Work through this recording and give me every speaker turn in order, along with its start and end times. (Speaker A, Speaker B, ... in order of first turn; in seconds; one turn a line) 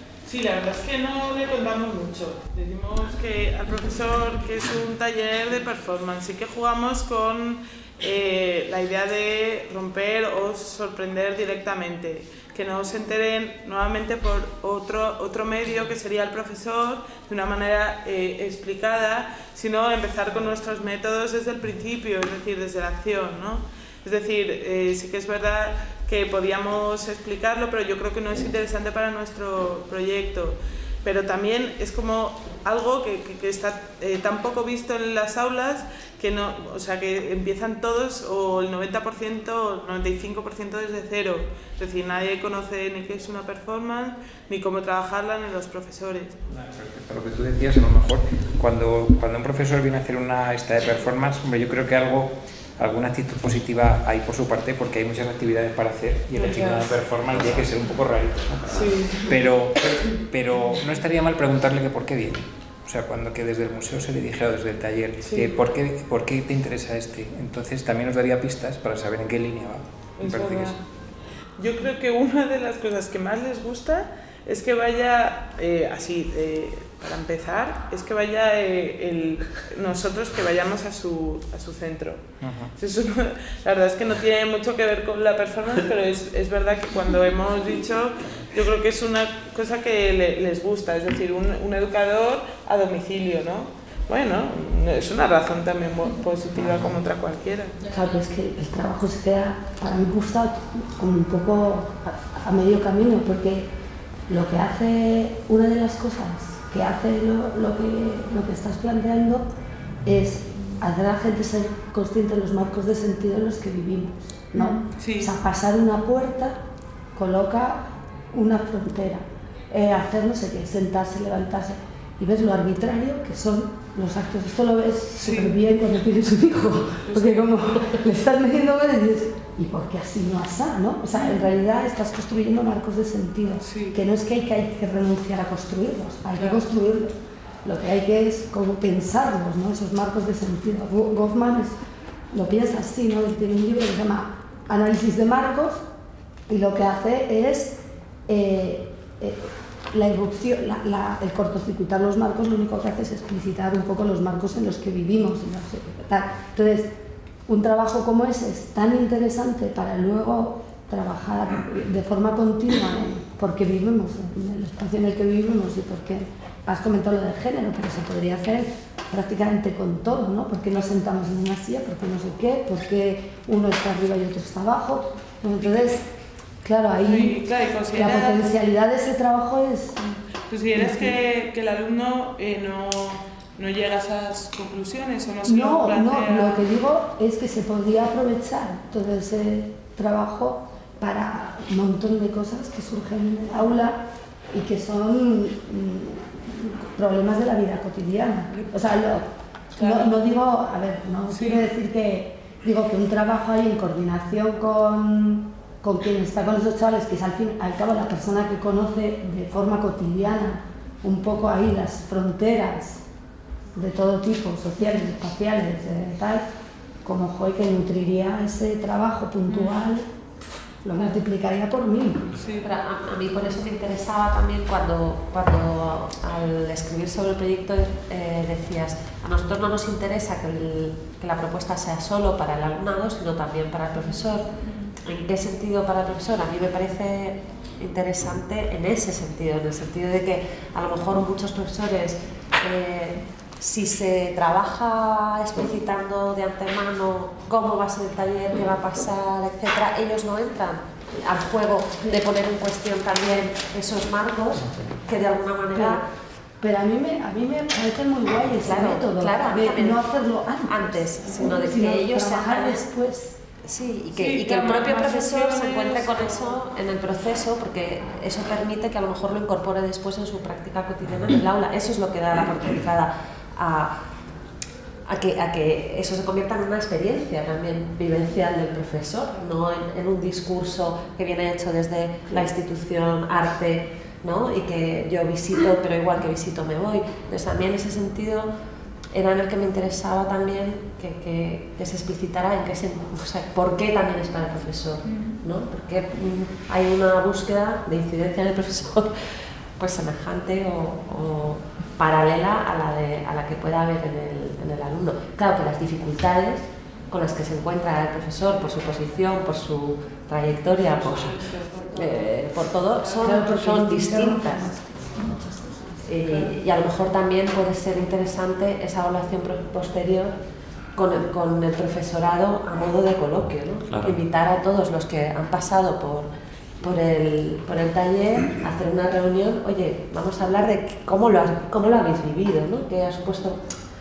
Speaker A: 0.2-46.4
Speaker B: 46.5-70.8
Speaker A: 56.4-56.8
Speaker A: 58.7-59.3
Speaker A: 65.2-65.5
Speaker A: 70.2-70.8
Speaker A: 71.6-82.2
Speaker B: 82.4-82.7
Speaker A: 82.8-97.8
Speaker C: 97.9-103.7
Speaker C: 104.3-109.5
Speaker C: 110.0-116.6
Speaker A: 114.6-115.3
Speaker C: 117.1-141.8
Speaker A: 125.2-125.6
Speaker A: 127.0-128.0
Speaker A: 131.1-131.4
Speaker A: 133.6-134.0
Speaker A: 136.3-136.6
Speaker C: 142.3-145.8
Speaker C: 146.5-156.9
Speaker C: 157.5-176.1
Speaker A: 175.6-175.9
Speaker C: 176.6-179.9
Speaker A: 177.0-178.6
Speaker A: 180.0-186.7
Speaker C: 180.7-181.1
Speaker C: 185.4-213.0
Speaker A: 198.5-198.8
Speaker A: 199.8-200.1
Speaker A: 201.3-201.7
Speaker C: 213.7-216.4
Speaker C: 217.0-220.1
Speaker A: 219.5-219.9
Speaker C: 220.8-222.3
Speaker A: 222.4-222.7
Speaker D: 222.6-234.5
Speaker D: 235.0-256.0
Speaker B: 254.5-254.9
Speaker C: 255.7-256.0
Speaker C: 256.6-263.4
Speaker D: 258.6-260.1
Speaker D: 260.6-262.9
Speaker D: 263.6-273.9
Speaker A: 264.1-266.6
Speaker D: 275.1-288.5
Speaker D: 289.1-299.1
Speaker D: 299.8-314.7
Speaker C: 313.1-316.1
Speaker D: 316.0-320.3
Speaker D: 320.9-326.3
Speaker D: 326.8-333.6